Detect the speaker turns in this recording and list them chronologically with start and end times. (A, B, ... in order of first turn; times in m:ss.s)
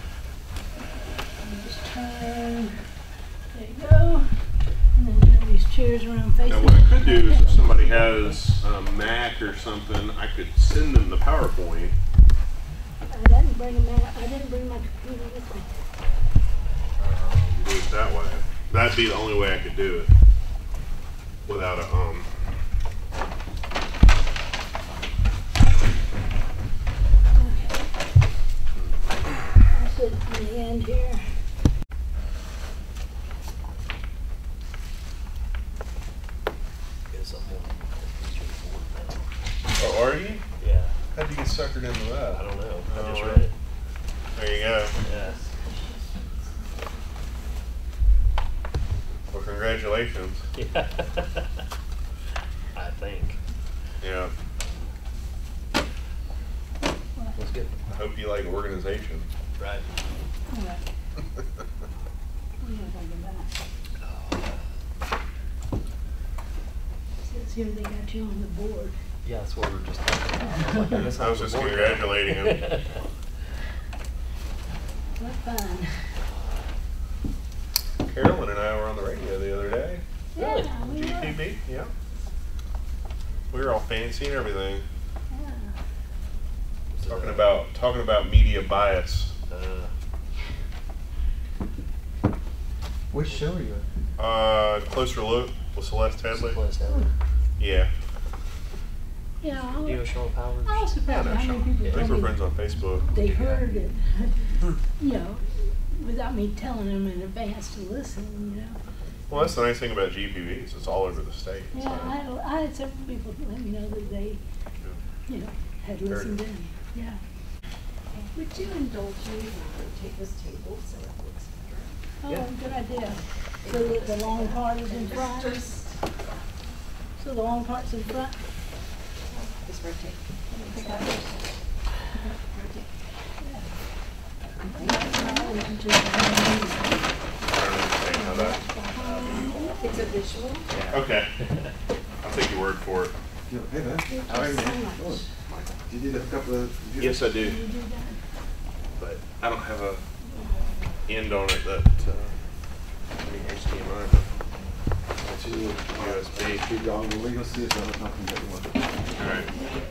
0:01.4-0:02.9 A
0:03.5-0:07.7 A
0:06.5-0:12.0 B
0:13.1-0:15.8 A
0:17.0-0:20.1 B
0:21.5-0:22.3 B
0:27.4-0:27.9 A
0:29.7-0:31.2 A
0:37.1-0:39.3 C
0:39.8-0:40.4 B
0:40.6-0:40.9 C
0:41.1-0:43.5 B
0:42.3-0:43.5 C
0:44.3-0:45.0 B
0:45.0-0:45.4 C
0:49.3-0:50.4 B
0:50.6-0:51.6 C
0:52.8-0:53.4 C
0:54.0-0:54.3 B
0:57.4-0:57.7 C
0:57.9-0:59.3 B
0:59.6-0:59.8 C
1:00.5-1:00.8 A
1:02.6-1:03.5 A
1:04.0-1:04.6 C
1:07.2-1:09.0 A
1:09.2-1:13.0 C
1:10.9-1:12.7 B
1:15.2-1:16.2 A
1:18.0-1:20.0 B
1:20.4-1:21.4 A
1:20.4-1:20.8 C
1:20.8-1:21.9 B
1:23.5-1:24.8 B
1:25.3-1:25.8 A
1:26.9-1:27.5 C
1:27.1-1:29.3 B
1:29.5-1:29.9 C
1:33.1-1:33.8 D
1:34.2-1:36.6 B
1:36.3-1:37.1 C
1:37.6-1:37.9 B
1:39.4-1:40.1 A
1:39.7-1:40.9 C
1:40.6-1:42.5 A
1:41.1-1:43.0 B
1:43.0-1:48.8 A
1:43.2-1:43.6 C
1:49.3-1:52.2 B
1:51.7-1:54.4 A
1:55.3-1:57.2 A
1:58.4-2:01.9 E
2:02.2-2:05.6 A
2:03.6-2:05.9 E
2:07.2-2:08.4 A
2:09.6-2:11.3 E
2:10.7-2:11.1 A
2:12.6-2:12.8 E
2:13.4-2:13.7 A
2:14.8-2:16.8 A
2:17.4-2:18.6 B
2:18.1-2:19.8 A
2:19.0-2:19.6 C
2:19.8-2:20.6 E
2:20.7-2:21.7 C
2:20.9-2:21.3 B
2:22.2-2:23.1 B
2:23.5-2:25.3 D
2:24.3-2:25.7 B
2:25.8-2:27.2 D
2:27.0-2:27.6 B
2:27.4-2:28.2 A
2:29.0-2:30.0 B
2:31.1-2:32.4 B
2:33.2-2:34.3 B
2:35.2-2:39.0 D
2:35.9-2:36.6 B
2:39.2-2:39.5 B